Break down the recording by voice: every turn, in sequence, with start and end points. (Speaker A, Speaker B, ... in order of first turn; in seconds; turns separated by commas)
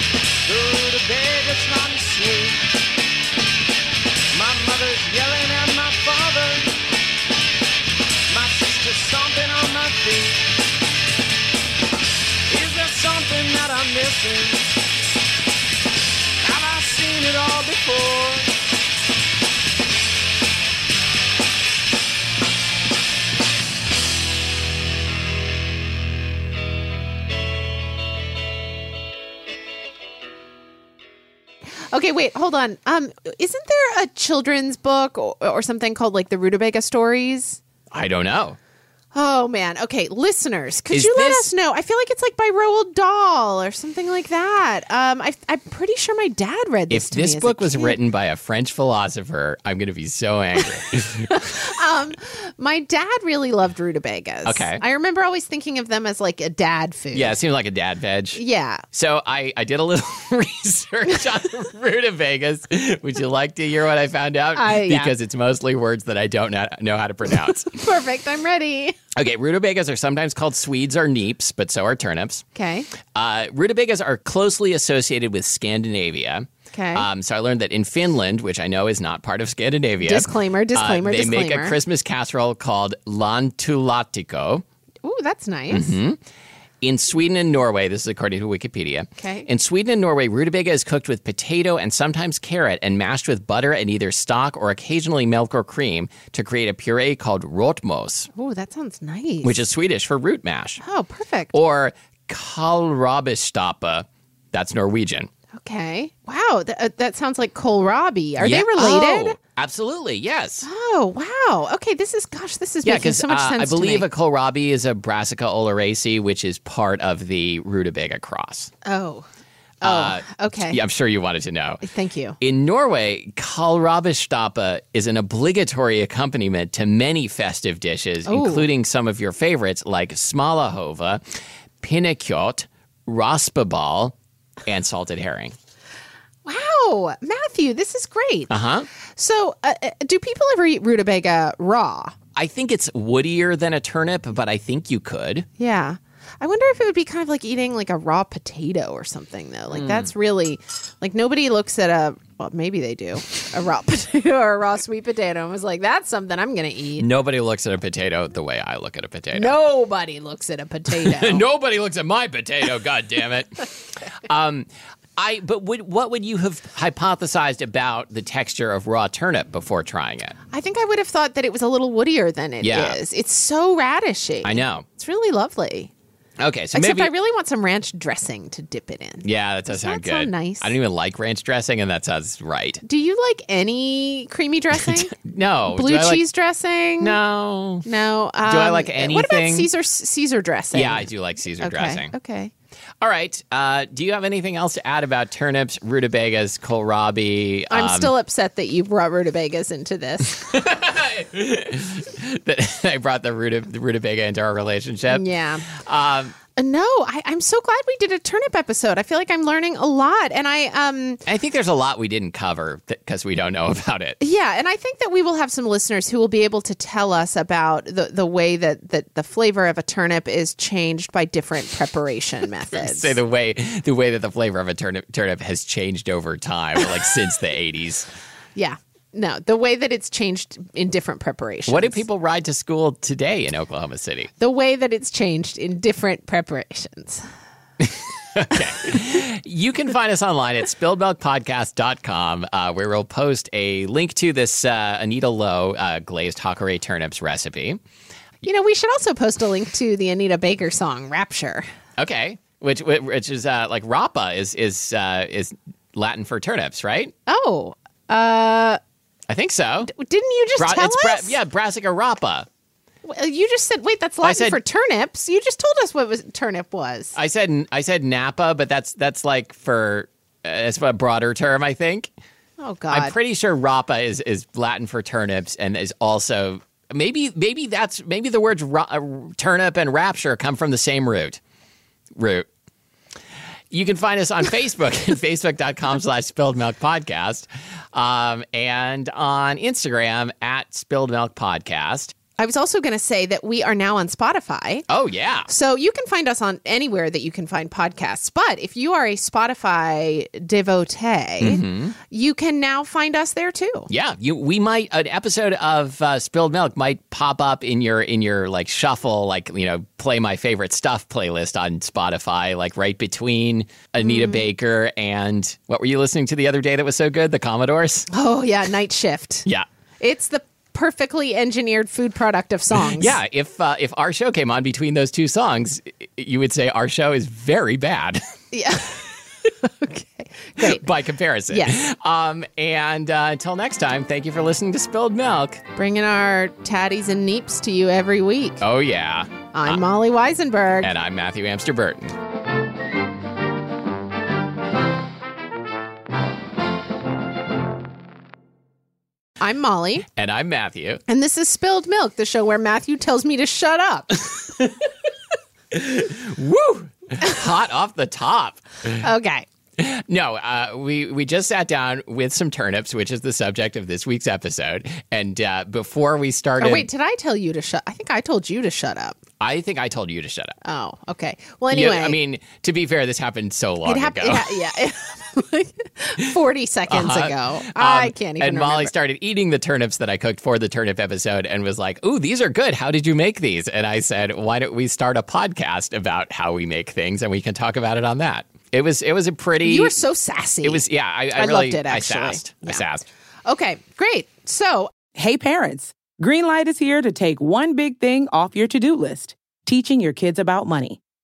Speaker A: 0.4-2.6, Speaker A: 4.3-6.8, Speaker A: 8.3-10.6, Speaker A: 12.5-14.8, Speaker A: 16.4-18.5, Speaker B: 31.9-37.6, Speaker C: 37.9-38.6, Speaker B: 39.1-48.0, Speaker C: 40.9-41.5, Speaker C: 46.9-51.6, Speaker B: 51.3-57.4, Speaker C: 54.4-54.8, Speaker C: 57.1-67.7, Speaker B: 58.3-58.8, Speaker B: 64.5-65.1, Speaker B: 67.7-69.0, Speaker C: 69.1-72.4, Speaker B: 72.5-72.9, Speaker C: 73.0-84.6, Speaker B: 76.7-77.1, Speaker B: 80.0-81.8, Speaker B: 85.0-86.0, Speaker C: 85.7-86.2, Speaker C: 86.8-98.3, Speaker B: 89.2-89.5, Speaker B: 98.3-99.6, Speaker C: 99.4-100.8, Speaker B: 100.8-101.5, Speaker C: 101.5-105.3, Speaker B: 105.6-109.4, Speaker C: 108.4-110.7, Speaker B: 110.6-114.1, Speaker C: 112.8-118.7, Speaker B: 118.8-119.2, Speaker B: 119.8-120.8, Speaker C: 119.8-121.8, Speaker B: 121.8-122.4, Speaker C: 122.4-131.2, Speaker B: 128.2-128.7, Speaker C: 131.8-135.5, Speaker B: 136.4-138.5, Speaker C: 138.5-138.9, Speaker B: 139.2-142.1, Speaker C: 142.3-145.5, Speaker B: 145.6-157.1, Speaker C: 149.7-150.1, Speaker C: 157.0-159.5, Speaker B: 159.3-161.4, Speaker C: 160.9-163.7, Speaker C: 164.2-170.3, Speaker B: 170.5-175.9, Speaker C: 172.6-173.0, Speaker C: 174.4-174.8, Speaker C: 176.4-177.1, Speaker B: 176.7-180.7, Speaker C: 179.2-182.8, Speaker B: 182.8-185.1, Speaker C: 184.7-186.2, Speaker B: 185.7-187.2, Speaker C: 187.0-187.8, Speaker B: 187.8-192.5, Speaker C: 188.4-189.7, Speaker C: 190.7-192.1, Speaker C: 193.0-198.1, Speaker B: 197.7-200.5, Speaker C: 200.2-206.3, Speaker B: 205.1-205.7, Speaker B: 206.6-211.2, Speaker C: 211.2-214.2, Speaker B: 214.2-223.2, Speaker C: 222.7-228.1, Speaker B: 228.5-232.0, Speaker C: 231.7-234.3, Speaker B: 234.4-237.2, Speaker C: 237.8-247.8, Speaker B: 248.4-251.7, Speaker C: 252.0-257.1, Speaker B: 257.3-258.8, Speaker C: 259.3-259.9, Speaker B: 259.9-261.4, Speaker C: 260.6-262.5, Speaker B: 263.0-267.1, Speaker C: 264.2-264.6, Speaker C: 267.1-272.1, Speaker B: 272.6-273.1, Speaker C: 272.9-281.4, Speaker C: 282.1-282.5, Speaker C: 283.7-292.1, Speaker B: 292.4-294.9, Speaker C: 294.9-295.5, Speaker B: 295.5-303.9, Speaker C: 301.4-301.9, Speaker C: 303.9-318.1, Speaker B: 314.0-314.4, Speaker B: 318.1-319.5, Speaker B: 320.0-323.2, Speaker C: 322.7-328.2, Speaker B: 328.5-330.8, Speaker C: 330.6-335.6, Speaker B: 331.5-331.8, Speaker B: 335.7-338.6, Speaker C: 338.6-339.8, Speaker B: 339.5-340.9, Speaker C: 340.8-342.2, Speaker B: 349.4-350.1, Speaker C: 350.1-351.0, Speaker B: 351.1-354.4, Speaker C: 355.7-359.0, Speaker B: 358.9-359.5, Speaker C: 359.8-366.9, Speaker B: 366.6-369.2, Speaker C: 369.4-370.5, Speaker B: 370.6-372.2, Speaker C: 371.7-374.6, Speaker B: 373.8-378.9, Speaker C: 376.9-389.9, Speaker B: 389.6-392.8, Speaker C: 390.6-393.1, Speaker B: 393.4-394.9, Speaker D: 395.1-401.0